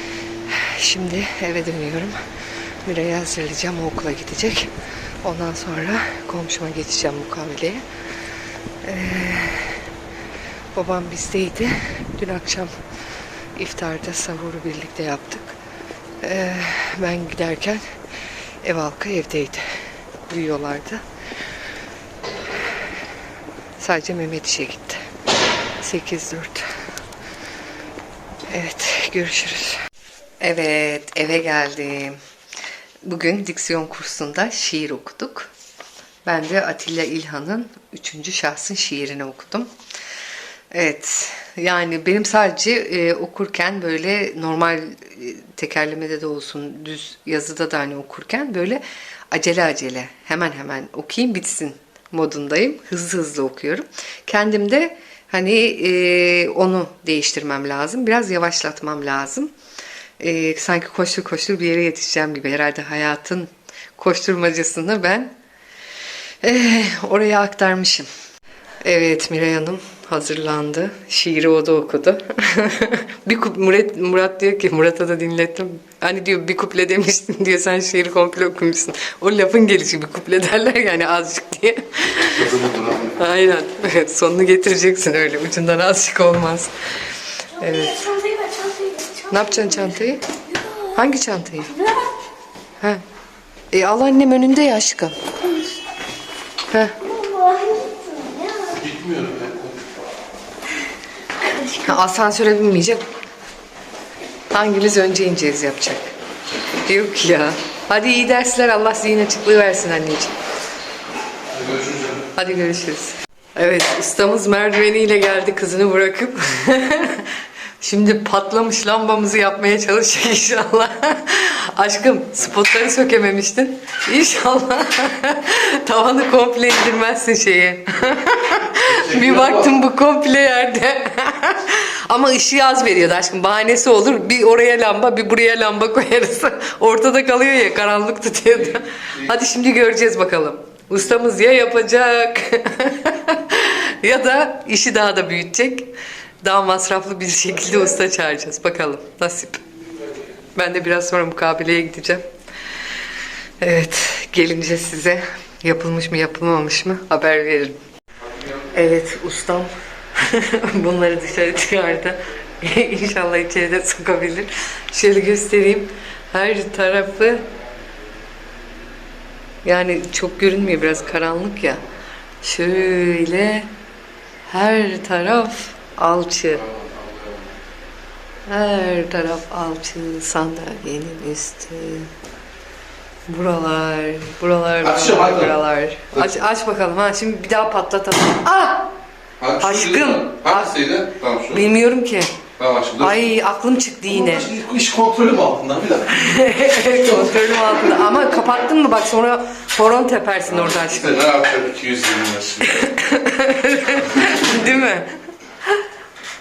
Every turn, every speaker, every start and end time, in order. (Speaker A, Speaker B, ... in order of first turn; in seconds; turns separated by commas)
Speaker A: 0.5-2.2, Speaker A: 2.8-7.8, Speaker A: 8.8-9.9, Speaker A: 10.7-12.8, Speaker A: 13.6-15.6, Speaker A: 16.2-18.0, Speaker A: 18.6-21.0, Speaker A: 23.8-25.1, Speaker A: 25.8-26.7, Speaker A: 28.5-29.8, Speaker A: 30.4-32.2, Speaker A: 33.0-35.5, Speaker A: 36.2-39.7, Speaker A: 40.7-59.5, Speaker A: 60.2-65.3, Speaker A: 66.4-68.1, Speaker A: 68.8-82.5, Speaker B: 82.3-83.2, Speaker A: 83.2-88.5, Speaker C: 88.5-89.1, Speaker A: 89.3-91.9, Speaker A: 93.7-95.6, Speaker A: 96.7-97.1, Speaker C: 97.3-98.6, Speaker B: 98.6-99.8, Speaker A: 101.5-103.0, Speaker A: 104.5-106.1, Speaker A: 106.8-110.4, Speaker B: 111.5-112.3, Speaker A: 112.3-149.6, Speaker B: 128.8-129.7, Speaker B: 138.7-139.3, Speaker A: 150.6-152.2, Speaker A: 153.6-157.8, Speaker A: 158.7-167.5, Speaker A: 169.6-171.8, Speaker A: 172.4-173.7, Speaker A: 174.5-176.7, Speaker B: 176.6-177.6, Speaker A: 178.5-182.1, Speaker A: 183.3-188.9, Speaker B: 184.8-185.6, Speaker B: 189.4-191.7, Speaker A: 189.6-190.8, Speaker A: 191.5-192.4, Speaker B: 192.6-193.3, Speaker A: 193.0-194.5, Speaker B: 194.1-196.3, Speaker A: 196.1-201.3, Speaker B: 200.5-202.9, Speaker A: 202.6-205.2